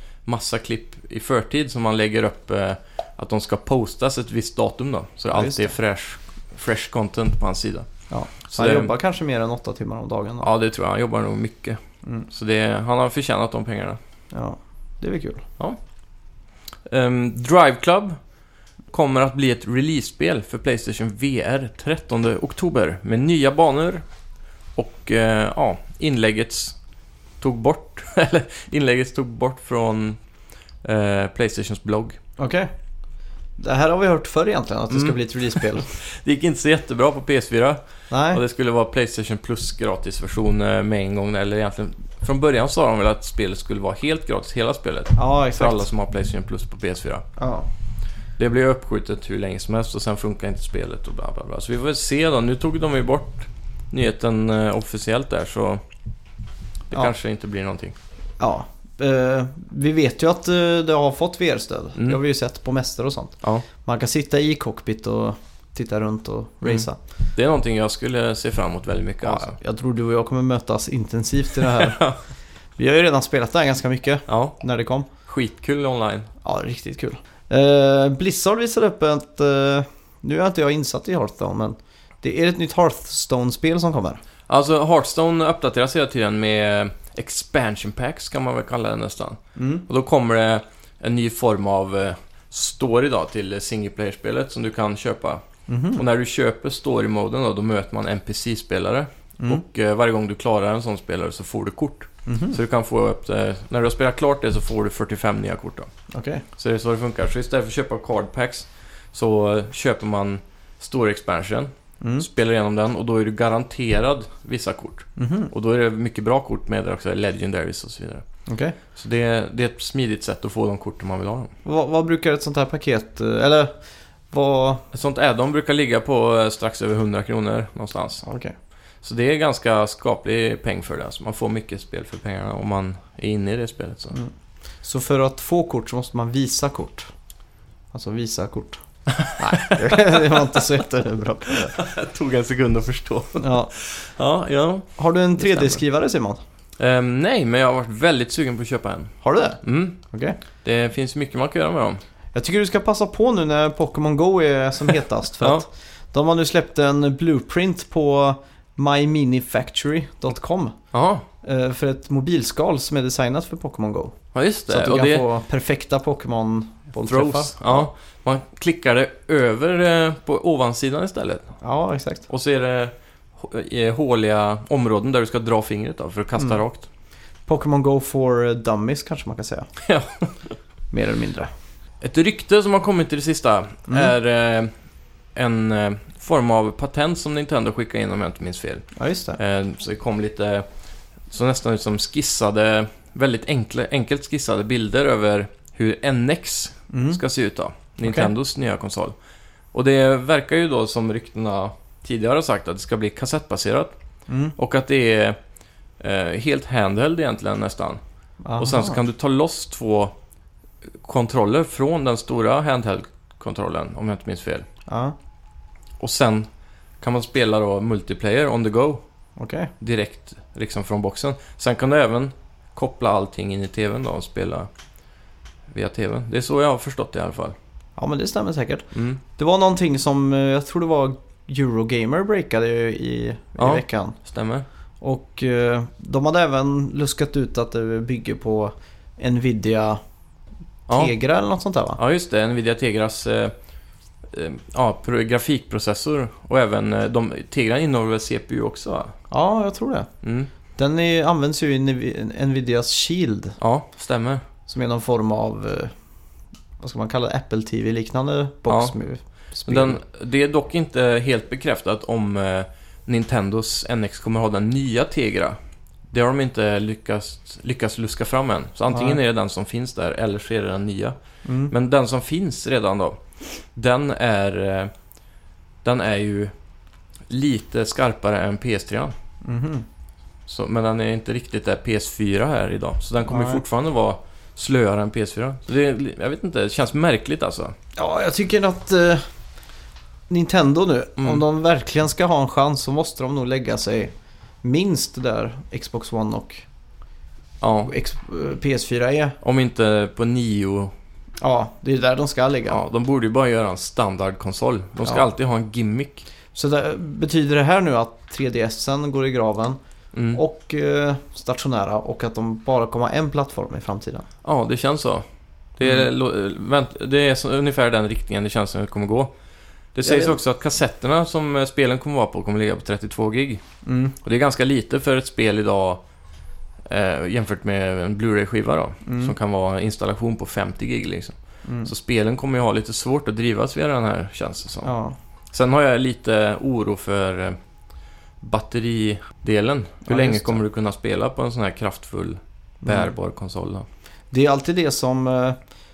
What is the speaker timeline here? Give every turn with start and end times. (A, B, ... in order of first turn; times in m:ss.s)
0:00.2-0:07.9 A
0:05.3-0:05.7 B
0:08.1-0:10.5 B
0:08.5-0:08.9 A
0:10.4-0:11.8 A
0:12.3-0:14.0 A
0:14.3-0:15.5 B
0:16.9-0:18.2 A
0:18.9-0:24.0 A
0:24.8-0:26.8 A
0:27.4-0:30.2 A
0:30.8-0:32.2 A
0:32.4-0:32.7 B
0:33.6-0:35.9 B
0:34.9-0:47.3 A
0:38.1-0:38.4 B
0:45.2-0:45.9 B
0:47.4-0:47.7 B
0:48.4-0:55.8 A
0:56.9-0:58.0 A
0:58.4-1:07.0 B
1:06.6-1:09.6 A
1:09.2-1:12.0 B
1:11.6-1:12.2 A
1:12.8-1:15.1 B
1:14.3-1:14.6 A
1:15.2-1:16.3 A
1:16.4-1:24.2 B
1:24.5-1:35.4 A
1:29.6-1:29.9 B
1:35.7-1:36.0 B
1:36.0-1:45.9 A
1:42.3-1:42.6 B
1:46.1-1:46.4 B
1:46.6-1:58.2 A
1:52.0-1:52.3 B
1:55.2-1:55.5 B
1:58.5-1:58.8 B
1:58.9-2:01.5 A
2:01.6-2:03.7 B
2:04.3-2:04.8 B
2:04.9-2:08.2 A
2:08.2-2:08.6 B
2:09.0-2:14.2 A
2:14.8-2:17.1 B
2:17.9-2:21.8 B
2:19.1-2:20.7 A
2:21.5-2:25.8 A
2:23.4-2:23.7 B
2:25.0-2:26.4 B
2:26.8-2:30.0 A
2:29.2-2:30.4 B
2:30.6-2:32.0 A
2:32.3-2:40.8 B
2:40.9-2:41.3 A
2:41.4-2:47.9 B
2:44.3-2:45.3 A
2:47.0-2:51.5 A
2:51.6-2:52.3 B
2:52.3-2:56.9 A
2:57.5-2:59.7 B
2:59.8-3:00.6 A
3:00.9-3:01.5 B
3:02.0-3:04.7 A
3:05.4-3:08.9 A
3:09.0-3:09.4 B
3:09.4-3:10.7 A
3:11.3-3:19.2 A
3:16.9-3:17.2 B
3:18.0-3:18.3 B
3:19.7-3:24.0 A
3:24.3-3:24.6 B
3:24.6-3:25.4 A
3:26.0-3:28.0 A
3:28.4-3:29.0 B
3:28.6-3:30.2 A
3:31.0-3:34.7 A
3:34.9-3:35.2 B
3:36.0-3:36.5 A
3:37.0-3:39.0 A
3:39.4-3:39.7 B
3:39.8-3:44.7 A
3:45.7-3:47.6 A
3:48.0-3:54.2 B
3:48.9-3:49.2 A
3:53.6-3:54.7 A
3:55.0-4:00.0 B
4:00.9-4:01.1 A
4:00.9-4:02.0 B
4:02.0-4:03.5 A
4:04.3-4:09.1 A
4:09.3-4:10.1 B
4:10.2-4:10.5 A
4:10.8-4:13.6 B
4:13.6-4:14.4 A
4:14.7-4:15.9 B
4:16.8-4:20.0 B
4:18.7-4:18.9 A
4:19.7-4:25.6 A
4:26.1-4:31.2 A
4:28.9-4:29.2 B
4:31.4-4:31.7 B
4:31.7-4:33.2 A
4:33.7-4:34.9 A
4:35.8-4:36.5 A
4:37.3-4:39.2 A
4:39.4-4:39.9 B
4:40.5-4:47.7 A
4:43.3-4:43.6 B
4:48.0-4:49.2 B
4:50.3-4:56.7 B
4:57.6-4:57.9 A
4:57.8-4:59.4 B
4:59.4-5:00.9 A
5:01.4-5:02.8 B
5:02.7-5:06.3 A
5:06.5-5:09.8 B
5:10.1-5:10.4 A
5:10.3-5:14.3 B
5:14.4-5:15.2 A
5:15.8-5:19.3 A
5:15.8-5:16.1 B
5:20.0-5:23.6 A
5:20.0-5:20.4 B
5:23.8-5:24.2 B
5:24.2-5:26.0 A
5:26.9-5:34.9 A
5:29.0-5:29.4 B
5:31.6-5:31.9 B
5:34.8-5:35.2 B
5:35.5-5:37.6 A
5:38.4-5:43.9 A
5:40.1-5:40.6 B
5:42.8-5:43.1 B
5:44.3-5:45.6 B